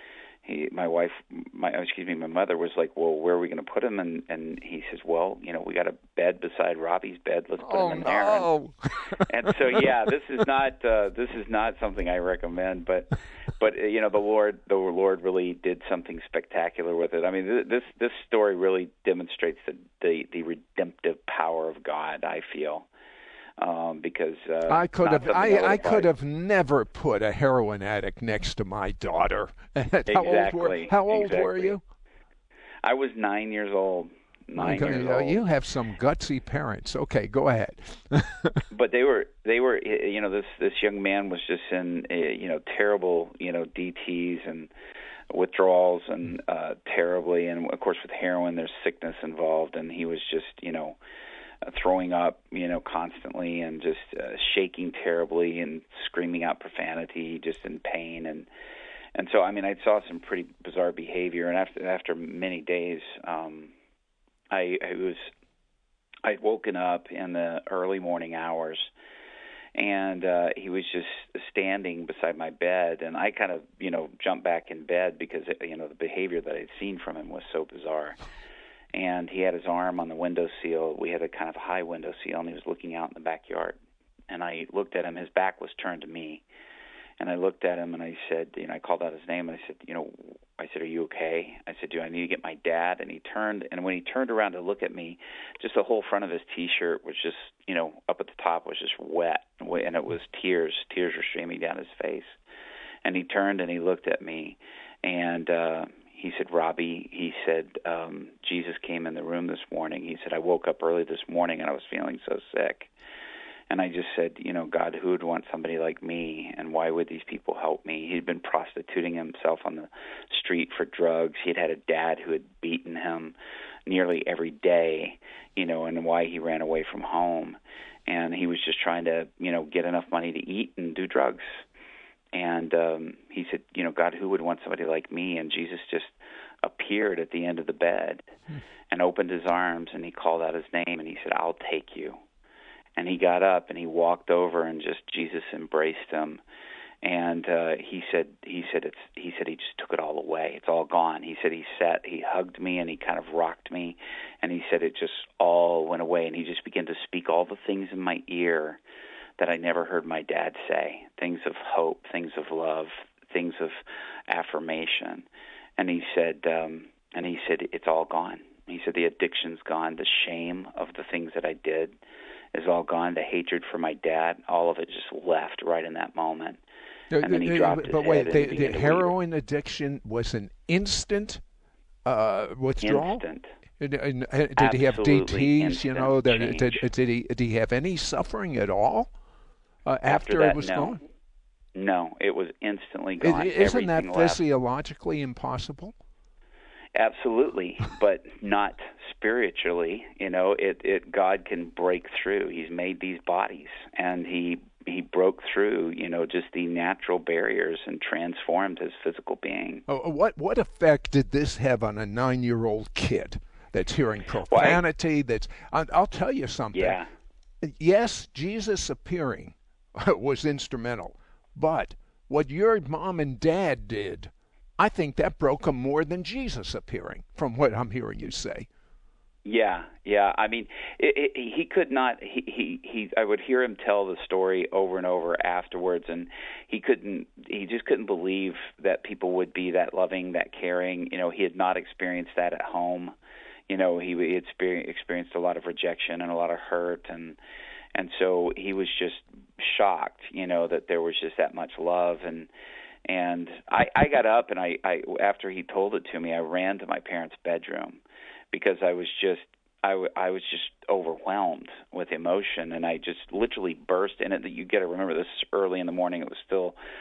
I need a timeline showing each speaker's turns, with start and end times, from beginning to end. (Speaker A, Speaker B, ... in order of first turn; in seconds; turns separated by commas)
Speaker A: 0.4-8.5, Speaker B: 7.6-9.8, Speaker A: 9.2-22.9, Speaker A: 23.6-26.1, Speaker B: 24.7-31.8, Speaker A: 30.1-31.8, Speaker A: 32.8-35.4, Speaker B: 34.5-38.6, Speaker A: 38.7-44.7, Speaker A: 45.3-51.0, Speaker A: 51.6-58.5, Speaker A: 59.1-63.7, Speaker A: 64.5-65.3, Speaker A: 66.2-68.9, Speaker A: 69.7-78.2, Speaker A: 78.9-83.8, Speaker A: 84.3-86.4, Speaker A: 87.2-102.3, Speaker A: 103.0-112.9, Speaker A: 113.7-123.3, Speaker A: 123.9-131.4, Speaker A: 132.3-138.2, Speaker A: 138.9-142.2, Speaker A: 142.9-146.4, Speaker A: 147.0-158.8, Speaker A: 159.4-165.2, Speaker A: 165.8-172.0, Speaker A: 172.5-176.6, Speaker B: 177.1-181.4, Speaker A: 177.2-179.1, Speaker B: 182.1-183.2, Speaker A: 182.8-183.5, Speaker B: 183.8-189.1, Speaker A: 184.6-186.8, Speaker B: 189.8-191.0, Speaker A: 190.1-191.0, Speaker A: 191.7-194.4, Speaker B: 193.2-195.9, Speaker A: 196.9-209.8, Speaker B: 209.9-217.0, Speaker A: 214.5-214.8, Speaker A: 216.7-217.1, Speaker B: 217.6-228.7, Speaker A: 229.4-243.2, Speaker A: 243.7-247.4, Speaker A: 247.9-252.5, Speaker A: 253.1-258.0, Speaker A: 258.5-266.8